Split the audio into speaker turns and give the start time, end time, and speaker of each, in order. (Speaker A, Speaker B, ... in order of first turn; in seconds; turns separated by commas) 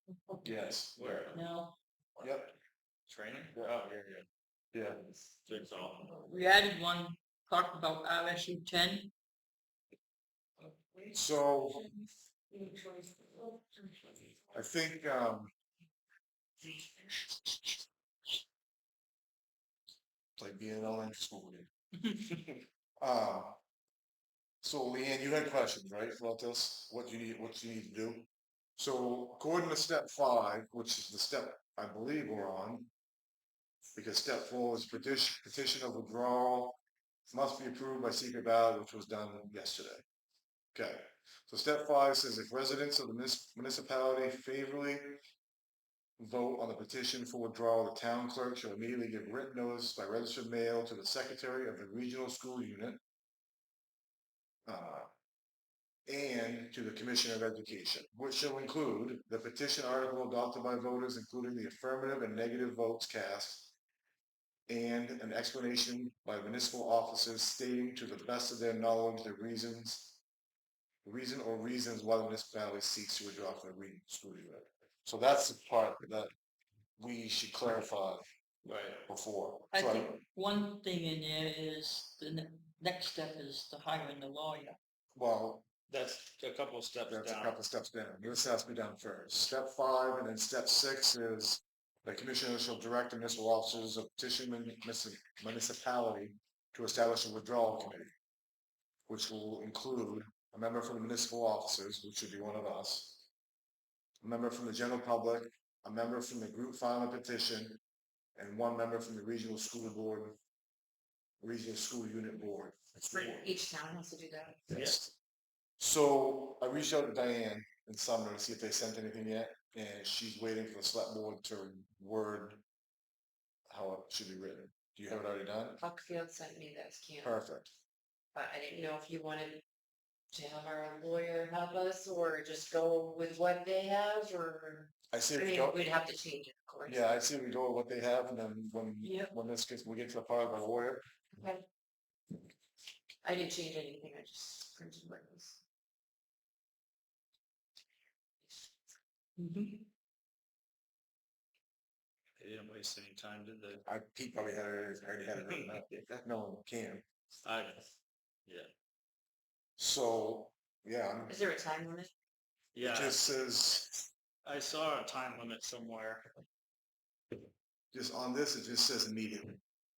Speaker A: 0.4-1.3, Speaker B: 1.0-1.4, Speaker C: 1.3-1.8, Speaker A: 2.2-2.5, Speaker B: 3.1-4.2, Speaker A: 4.7-5.0, Speaker B: 5.5-6.2, Speaker C: 6.2-9.1, Speaker D: 10.9-13.9, Speaker A: 11.1-11.8, Speaker A: 14.5-15.5, Speaker A: 20.4-21.7, Speaker A: 23.0-23.6, Speaker A: 24.6-28.3, Speaker A: 28.8-32.9, Speaker A: 34.0-36.8, Speaker A: 37.3-40.0, Speaker A: 40.7-45.2, Speaker A: 46.2-53.0, Speaker A: 54.7-55.1, Speaker A: 56.0-63.7, Speaker A: 64.7-70.2, Speaker A: 71.0-76.3, Speaker A: 77.0-78.2, Speaker B: 78.6-79.0, Speaker A: 79.1-80.2, Speaker C: 79.7-84.8, Speaker A: 85.1-85.7, Speaker B: 85.9-87.6, Speaker A: 87.1-98.1, Speaker A: 99.1-103.3, Speaker A: 104.2-107.8, Speaker A: 108.3-110.4, Speaker A: 111.4-113.5, Speaker D: 113.0-114.7, Speaker A: 114.7-115.1, Speaker B: 114.7-115.0, Speaker A: 115.8-122.6, Speaker A: 123.7-125.8, Speaker D: 125.8-127.4, Speaker A: 127.2-127.7, Speaker D: 128.3-129.6, Speaker D: 130.3-137.0, Speaker A: 135.1-135.8, Speaker A: 136.9-141.0, Speaker C: 139.0-139.3, Speaker D: 141.3-141.7, Speaker D: 143.2-145.6, Speaker C: 149.4-149.8, Speaker B: 152.4-153.8, Speaker A: 153.8-157.0, Speaker B: 155.4-155.8, Speaker B: 157.4-157.9, Speaker A: 159.8-161.4, Speaker D: 161.3-162.1, Speaker B: 162.7-163.3, Speaker A: 162.8-164.0, Speaker B: 164.4-166.3, Speaker A: 167.9-169.6